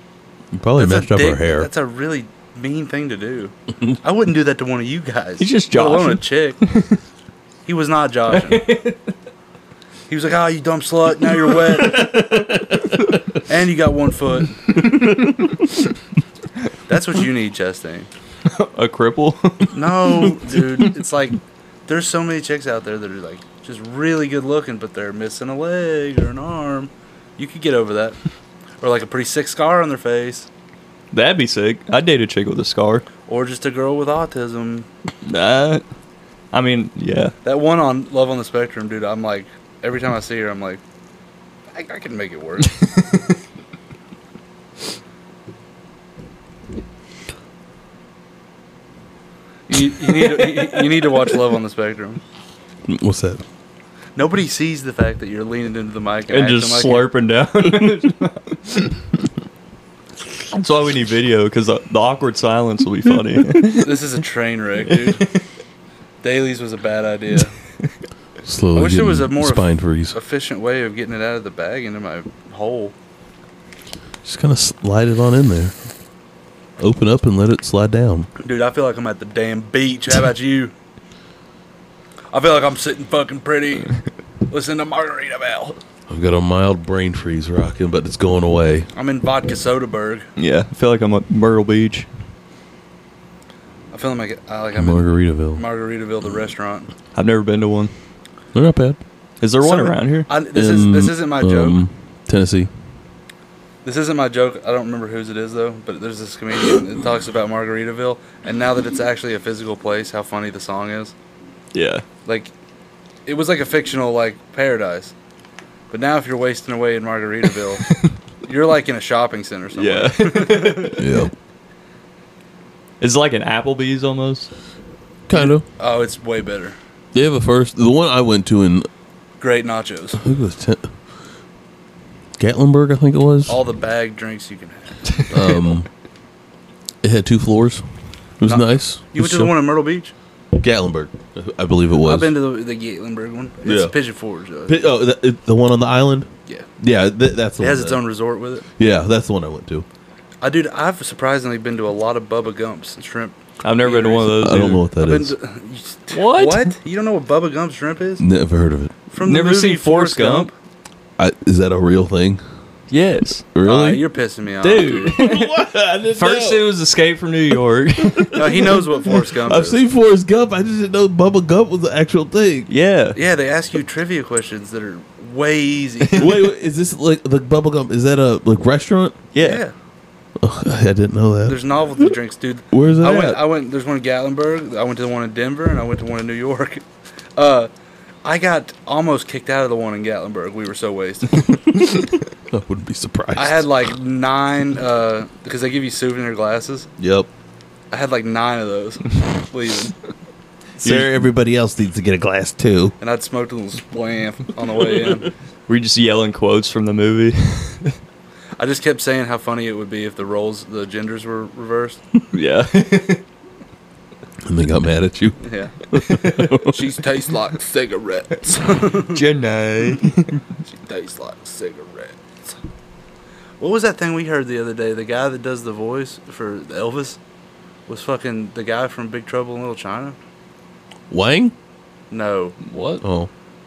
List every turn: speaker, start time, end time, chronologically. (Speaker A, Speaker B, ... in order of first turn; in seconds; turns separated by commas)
Speaker A: 0.5-1.7, Speaker B: 0.8-6.6, Speaker C: 5.4-7.0, Speaker B: 7.7-8.7, Speaker C: 8.4-9.0, Speaker B: 10.1-12.2, Speaker A: 12.3-12.9, Speaker B: 13.4-14.8, Speaker A: 14.9-15.3, Speaker B: 16.9-18.1, Speaker C: 18.5-19.8, Speaker B: 19.7-28.2, Speaker B: 28.8-30.5, Speaker C: 31.1-33.1, Speaker B: 33.3-34.9, Speaker C: 35.2-35.8, Speaker C: 36.5-37.4, Speaker B: 37.4-40.8, Speaker B: 41.7-42.8, Speaker B: 49.7-52.2, Speaker C: 50.2-50.9, Speaker A: 52.9-53.4, Speaker B: 54.2-57.1, Speaker C: 56.3-59.0, Speaker C: 60.5-63.9, Speaker B: 63.8-65.3, Speaker C: 64.9-65.3, Speaker B: 66.2-67.5, Speaker A: 68.4-70.2, Speaker B: 68.7-72.9, Speaker A: 74.2-75.8, Speaker A: 76.8-78.3, Speaker B: 78.4-80.7, Speaker B: 82.3-83.9, Speaker B: 84.5-85.8, Speaker A: 86.1-88.9, Speaker B: 88.9-90.3, Speaker C: 90.4-92.1, Speaker B: 93.9-96.9, Speaker A: 94.8-95.6, Speaker C: 97.2-97.9, Speaker A: 98.5-99.0, Speaker C: 99.4-100.3, Speaker B: 99.6-101.8, Speaker A: 100.5-102.7, Speaker B: 103.8-111.1, Speaker C: 111.7-112.0, Speaker B: 112.3-112.5, Speaker B: 113.3-115.1, Speaker B: 115.9-117.9, Speaker B: 118.5-121.0, Speaker C: 119.8-121.1, Speaker A: 121.0-121.3, Speaker C: 123.0-124.5, Speaker A: 125.3-125.7, Speaker B: 125.3-126.8, Speaker A: 127.1-128.9, Speaker B: 129.4-130.2, Speaker A: 130.2-130.9, Speaker A: 132.4-133.6, Speaker B: 133.5-135.3, Speaker A: 135.3-135.9, Speaker A: 137.0-137.8, Speaker A: 138.4-139.5, Speaker B: 138.5-140.1, Speaker A: 140.6-142.3, Speaker B: 142.0-144.9, Speaker A: 143.6-144.0, Speaker A: 144.7-148.1, Speaker B: 147.6-148.7, Speaker A: 148.8-149.9, Speaker B: 150.4-158.2, Speaker C: 153.6-154.8, Speaker A: 154.4-155.3, Speaker C: 156.1-156.7, Speaker A: 158.2-158.9, Speaker B: 159.1-160.5, Speaker C: 159.2-160.5, Speaker A: 161.2-162.4, Speaker C: 162.9-163.5, Speaker A: 163.6-164.1, Speaker B: 163.6-165.2, Speaker A: 164.6-166.7, Speaker C: 164.6-168.7, Speaker A: 168.0-172.7, Speaker B: 168.3-169.8, Speaker C: 172.7-173.2, Speaker B: 173.2-176.4, Speaker A: 176.2-179.2, Speaker C: 179.3-179.6, Speaker B: 179.4-179.7, Speaker A: 180.4-182.1, Speaker B: 181.5-186.8, Speaker A: 182.7-183.4, Speaker B: 187.4-187.7, Speaker B: 188.2-191.6, Speaker A: 192.5-193.9, Speaker B: 193.3-196.9, Speaker A: 197.0-197.3, Speaker B: 197.9-200.0, Speaker A: 200.8-202.9, Speaker B: 203.0-205.3, Speaker C: 205.7-208.0, Speaker B: 208.6-212.0, Speaker C: 212.3-213.2, Speaker A: 214.4-216.8, Speaker B: 215.4-219.2, Speaker C: 218.9-220.4, Speaker B: 220.7-222.6, Speaker B: 223.6-227.2, Speaker B: 227.9-230.2, Speaker A: 231.1-231.5, Speaker B: 232.1-232.6, Speaker C: 232.6-233.0, Speaker A: 233.0-233.3